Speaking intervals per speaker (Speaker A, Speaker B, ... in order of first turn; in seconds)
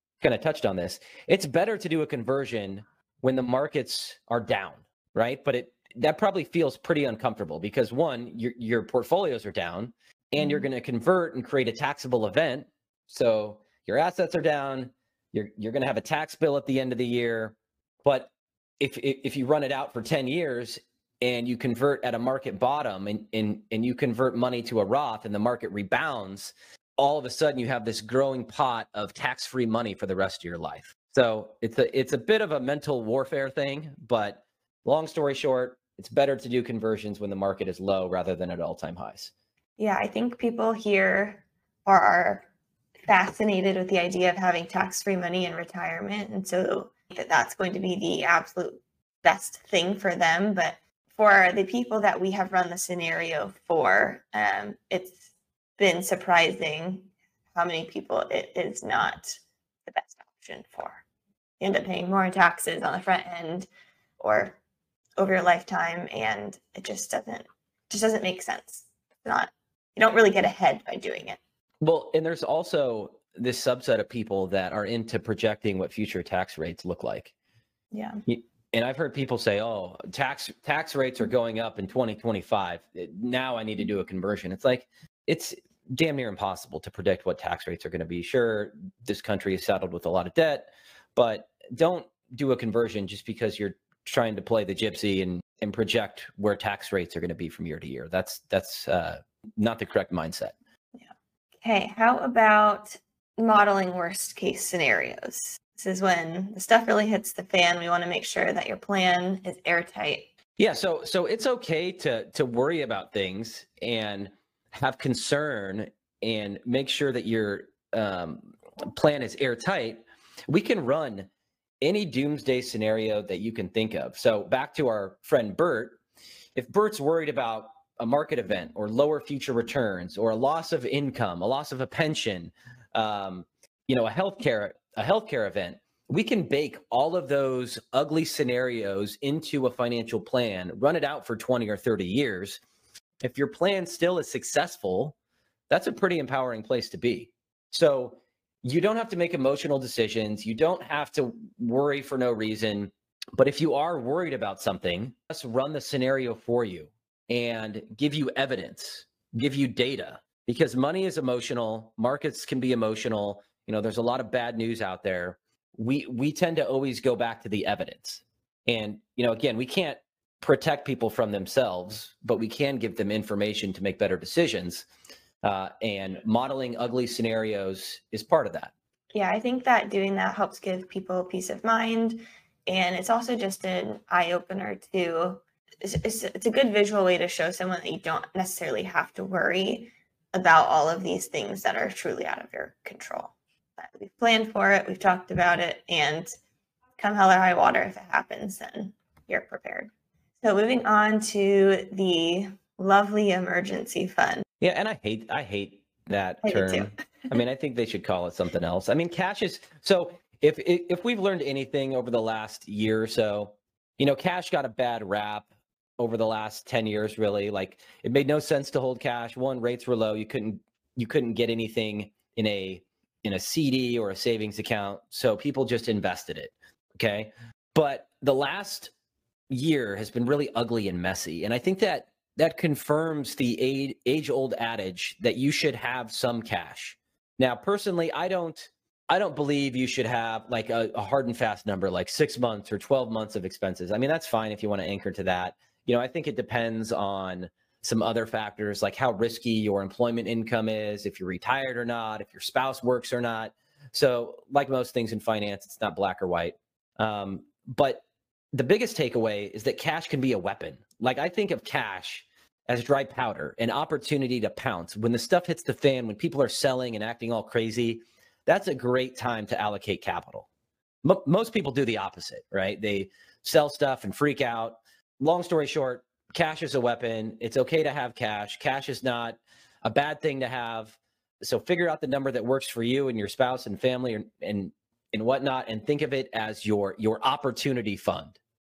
Speaker A: 0.2-39.3, 71.8-77.3, 78.3-100.5, 110.6-121.3, 121.8-126.0, 126.6-142.6, 143.2-145.2, 145.7-174.9, 175.4-178.7, 204.6-228.9, 229.5-258.0, 258.5-270.5, 271.0-288.4
Speaker B: 39.8-42.5, 43.1-61.0, 61.6-63.7, 64.2-64.6, 65.2-71.4, 77.9-78.2, 101.6-110.3, 179.1-196.3, 197.0-199.9, 200.4-204.4, 206.4-206.9